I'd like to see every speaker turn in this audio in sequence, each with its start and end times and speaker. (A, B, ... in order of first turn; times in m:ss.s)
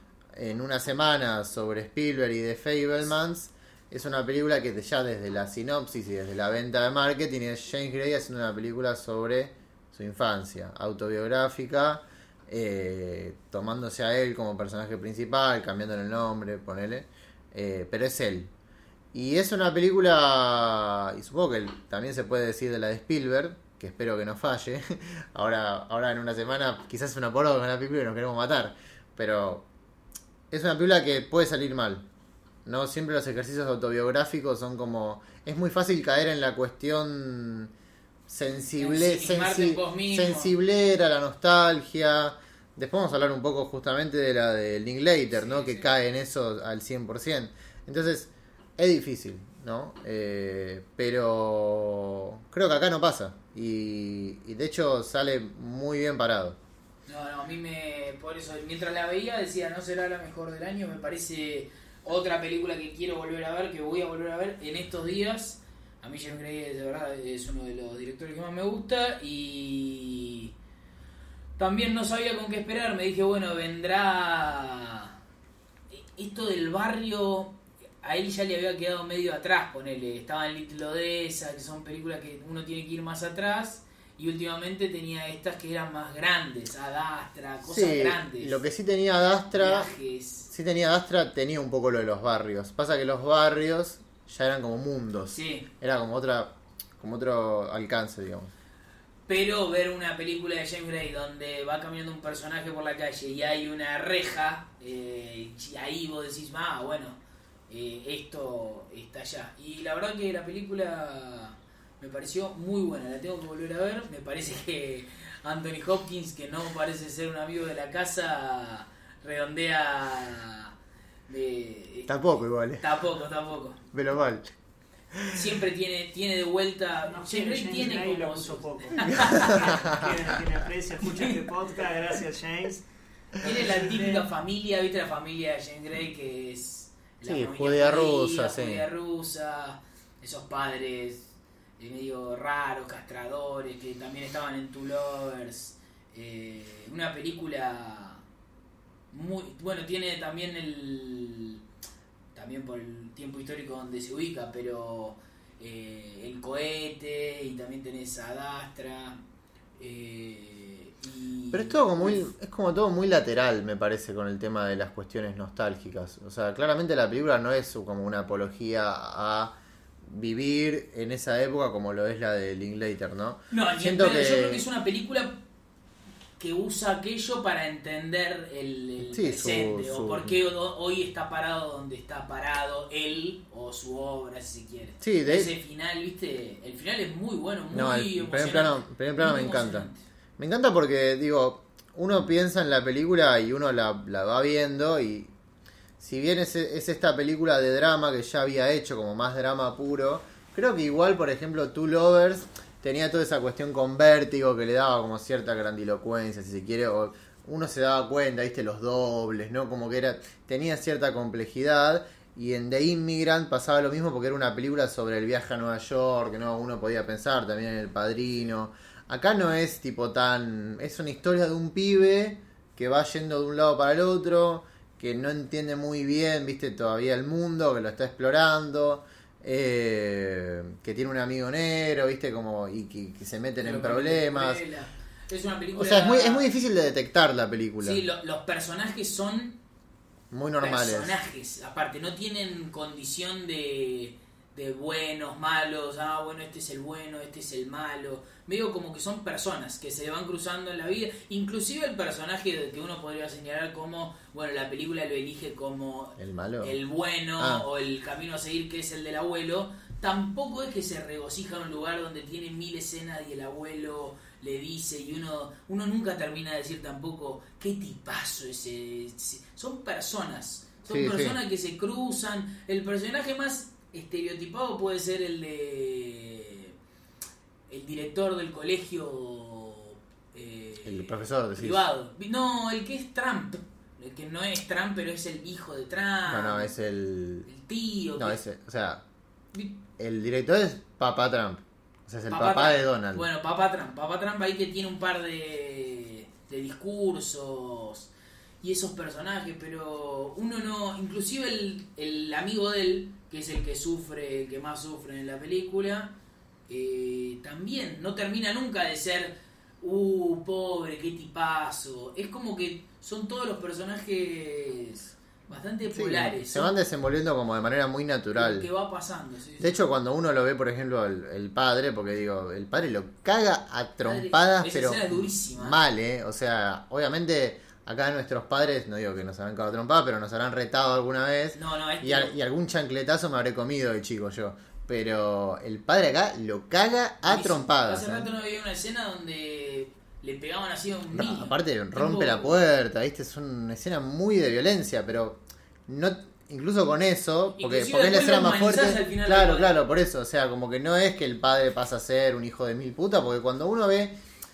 0:00.4-0:18.5 A
0:19.1-0:29.7 A
0:30.5-0:32.0 A
0:32.7-0:37.7 A
0:38.3-0:56.6 A
0:38.8-0:40.5 B
0:45.3-0:45.9 B
0:57.1-1:10.5 B
1:11.6-1:15.2 B
1:15.9-1:28.6 B
1:27.7-1:29.9 A
1:29.6-1:30.5 B
1:30.5-1:38.5 A
1:35.3-1:35.7 B
1:39.3-1:47.2 B
1:47.7-2:00.7 B
2:01.3-2:03.9 B
2:02.1-2:02.8 A
2:03.9-2:04.5 A
2:05.1-2:05.4 A
2:05.3-2:09.9 B
2:07.1-2:12.9 C
2:09.3-2:10.1 A
2:11.0-2:11.4 B
2:13.4-2:14.3 C
2:13.4-2:28.2 B
2:17.3-2:18.8 A
2:29.1-2:31.6 B
2:32.4-2:39.2 B
2:39.8-2:42.2 B
2:41.5-2:54.6 A
2:53.5-2:55.4 B
2:56.4-3:10.0 B
2:59.0-3:00.4 A
3:05.0-3:05.5 A
3:07.7-3:09.9 A
3:10.4-3:15.3 A
3:16.0-3:54.6 A
3:53.6-3:56.5 B
3:55.8-3:58.0 A
3:57.8-3:59.6 B
4:00.3-4:01.2 A
4:00.6-4:36.8 B
4:16.2-4:16.8 A
4:17.4-4:17.6 A
4:30.9-4:31.4 A
4:37.7-4:46.7 B
4:40.8-4:41.8 A
4:46.3-4:47.5 A
4:47.5-4:48.4 B
4:48.2-4:49.0 A
4:49.5-4:49.8 B
4:50.0-4:53.3 A
4:52.3-4:58.1 B
4:58.6-5:06.2 B
5:06.7-5:16.7 B
5:15.9-5:18.7 A
5:18.3-5:19.8 B
5:19.6-5:38.3 A
5:24.0-5:25.8 B
5:31.6-5:32.3 B
5:37.2-5:42.6 B
5:41.1-5:54.2 A
5:47.6-5:49.7 B